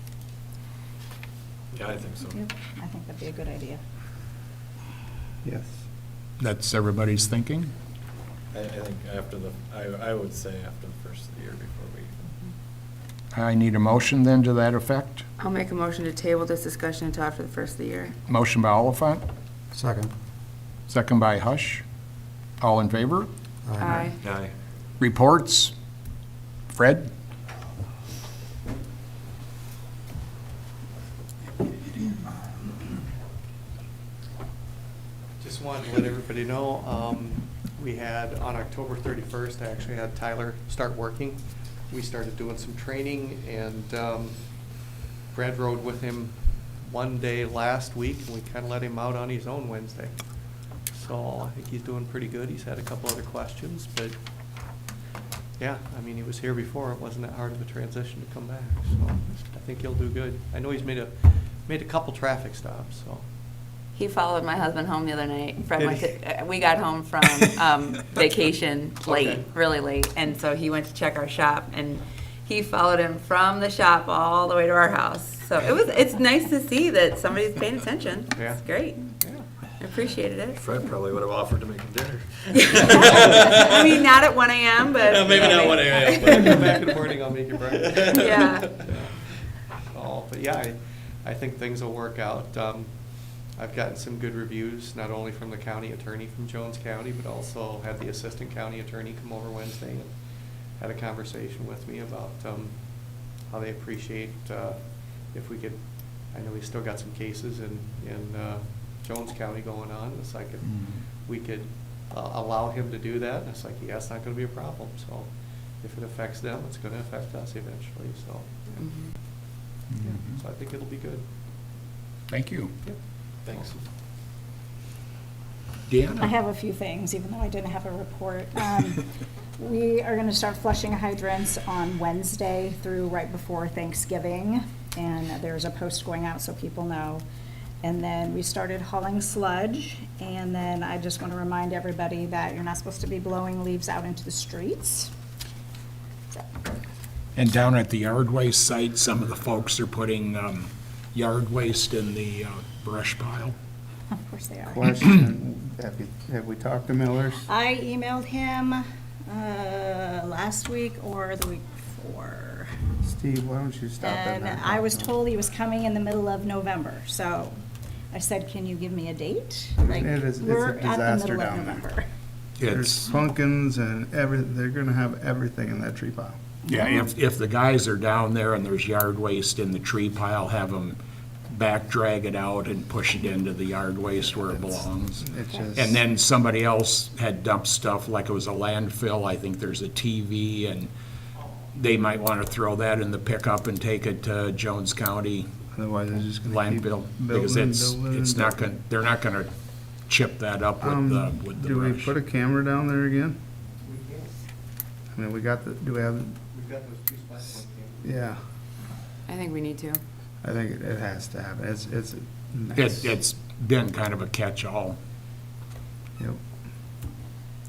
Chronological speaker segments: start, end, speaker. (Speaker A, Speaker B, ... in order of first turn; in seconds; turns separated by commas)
Speaker A: 1.7-2.4, Speaker B: 2.3-3.8, Speaker C: 5.4-5.8, Speaker D: 6.4-7.7, Speaker A: 8.5-12.3, Speaker D: 13.3-15.2, Speaker E: 15.4-18.1, Speaker D: 18.3-19.2, Speaker C: 19.8-20.1, Speaker D: 20.9-21.8, Speaker D: 22.6-23.3, Speaker E: 23.8-24.2, Speaker A: 24.2-24.5, Speaker D: 25.0-25.7, Speaker D: 26.7-27.1, Speaker F: 35.4-54.8, Speaker F: 55.6-63.3, Speaker E: 63.9-79.1, Speaker F: 65.8-66.1, Speaker F: 69.0-69.5, Speaker F: 78.3-78.6, Speaker F: 79.2-79.5, Speaker E: 79.8-80.6, Speaker A: 80.5-84.0, Speaker E: 82.5-86.1, Speaker A: 85.0-86.9, Speaker F: 85.2-121.2, Speaker A: 87.9-88.9, Speaker E: 88.1-88.7, Speaker D: 110.6-111.0, Speaker E: 118.8-119.1, Speaker D: 119.9-120.4, Speaker D: 122.3-122.7, Speaker F: 122.8-123.8, Speaker A: 123.4-123.7, Speaker D: 125.9-126.3, Speaker B: 126.2-129.1, Speaker B: 129.6-137.2, Speaker B: 137.8-145.1, Speaker D: 147.3-153.6, Speaker B: 154.1-155.1, Speaker C: 154.7-157.5, Speaker B: 157.4-162.7, Speaker C: 163.0-165.1, Speaker B: 164.0-167.6, Speaker B: 168.1-172.0, Speaker C: 169.8-171.8, Speaker D: 172.6-173.0, Speaker C: 172.7-176.4, Speaker D: 176.7-181.0, Speaker D: 181.5-190.9, Speaker C: 185.2-186.0, Speaker D: 191.7-195.5, Speaker C: 195.7-198.5, Speaker D: 196.4-199.5, Speaker D: 200.0-202.1, Speaker C: 200.8-203.4, Speaker F: 203.8-204.3, Speaker C: 205.1-206.4, Speaker F: 206.5-208.1, Speaker C: 208.0-208.4, Speaker E: 209.3-210.0, Speaker C: 210.4-213.2, Speaker D: 212.8-215.0